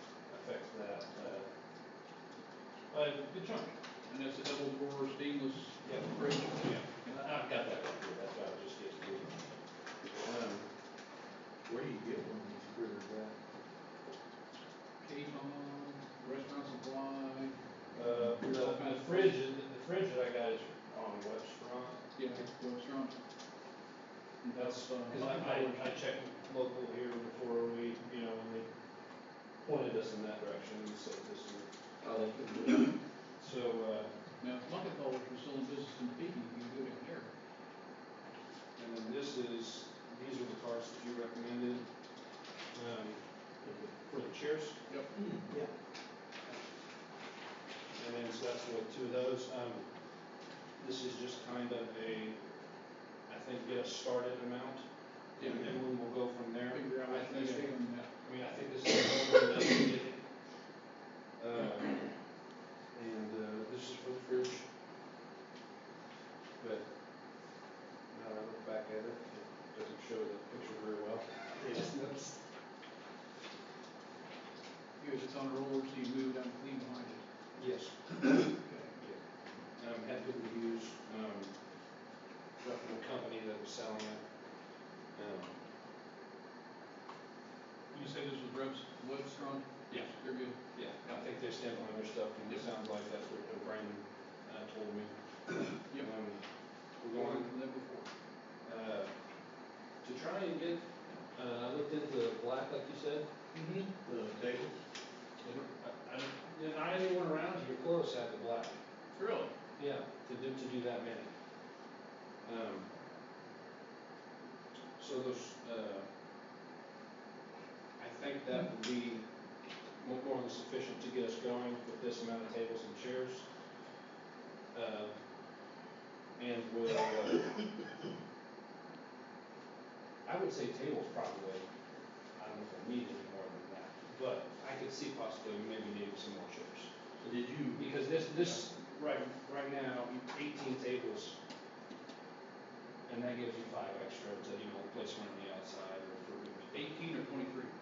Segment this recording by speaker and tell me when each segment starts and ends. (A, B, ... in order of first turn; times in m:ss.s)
0:00.2-0:01.5 A
0:02.9-0:03.8 A
0:04.1-0:06.7 B
0:05.8-0:09.5 A
0:10.2-0:10.7 A
0:11.7-0:13.3 C
0:15.0-0:19.4 B
0:18.0-0:22.0 A
0:22.2-0:23.1 B
0:24.4-0:26.0 B
0:24.5-0:34.2 A
0:34.4-0:37.3 B
0:38.8-0:41.9 A
0:42.7-0:44.8 A
0:44.9-0:45.1 B
0:45.2-0:45.7 C
0:47.9-0:50.1 A
0:50.8-0:52.5 A
0:53.3-1:00.3 A
0:55.4-0:55.8 B
0:56.7-0:58.1 B
1:01.4-1:02.2 A
1:02.9-1:04.7 A
1:06.6-1:06.9 A
1:08.1-1:12.4 A
1:15.0-1:17.2 B
1:17.6-1:19.2 A
1:18.6-1:19.0 B
1:19.8-1:21.7 A
1:22.6-1:24.4 A
1:25.1-1:25.5 A
1:27.9-1:31.3 B
1:29.9-1:37.6 A
1:37.1-1:38.1 B
1:38.6-1:39.2 A
1:40.0-1:43.3 A
1:43.5-1:43.9 B
1:44.0-1:44.8 C
1:45.4-1:48.8 A
1:49.1-1:49.5 B
1:49.8-1:51.3 A
1:52.4-1:52.9 A
1:55.0-1:56.1 A
1:58.0-1:59.3 A
2:00.0-2:03.5 A
2:04.7-2:05.2 A
2:06.4-2:07.6 A
2:10.2-2:11.7 A
2:12.3-2:16.9 A
2:17.2-2:17.9 C
2:17.8-2:21.4 A
2:23.1-2:26.8 A
2:26.7-2:27.7 B